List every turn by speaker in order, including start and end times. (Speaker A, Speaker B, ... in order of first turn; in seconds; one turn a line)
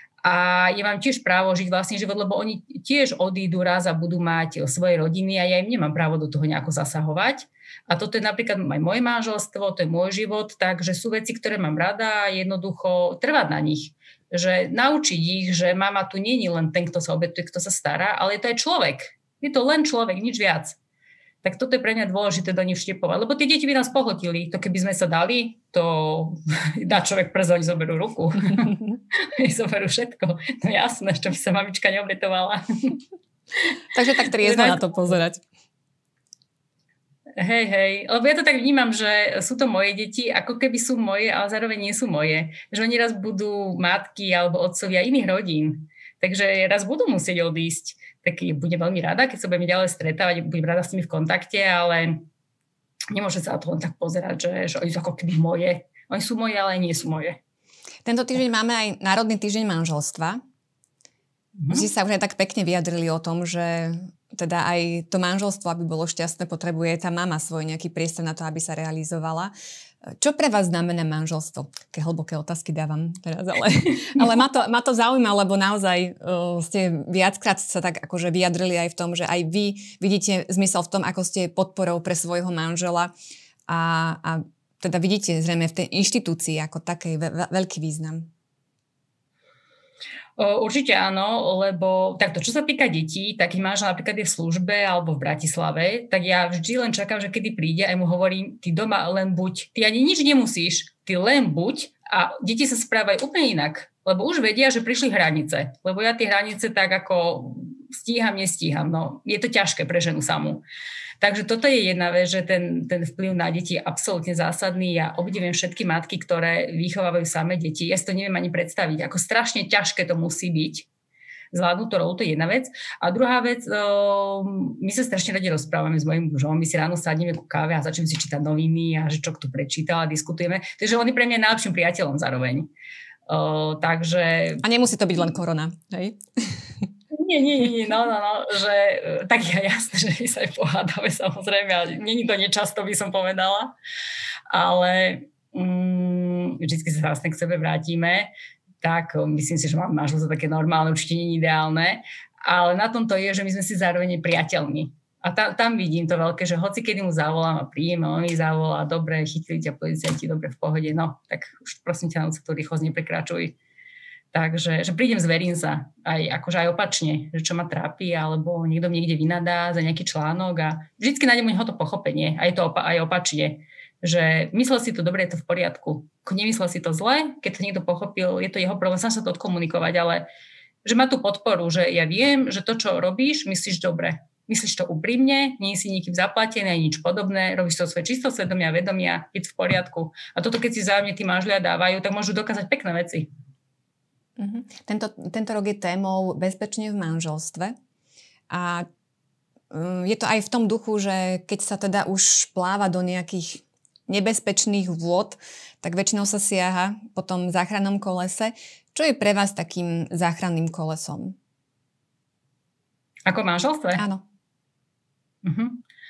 Speaker A: 0.2-20.8
Speaker A: 21.4-33.0
Speaker B: 33.9-35.4
Speaker A: 34.3-35.1
Speaker A: 37.4-52.3
Speaker A: 53.1-57.4
Speaker B: 58.0-60.4
Speaker A: 61.5-61.9
Speaker B: 61.7-69.5
Speaker B: 70.0-83.1
Speaker B: 83.7-88.3
Speaker A: 90.4-110.6
Speaker A: 111.2-120.9
Speaker A: 121.5-132.7
Speaker A: 133.3-134.6
Speaker B: 134.6-136.8
Speaker A: 137.1-143.7
Speaker A: 144.5-148.3
Speaker A: 148.8-163.6
Speaker A: 164.3-180.3
Speaker A: 180.8-193.3
Speaker B: 194.4-197.7
Speaker B: 198.5-198.8
Speaker B: 199.7-211.3
Speaker A: 213.2-214.0
Speaker B: 214.0-214.2
Speaker A: 215.4-215.8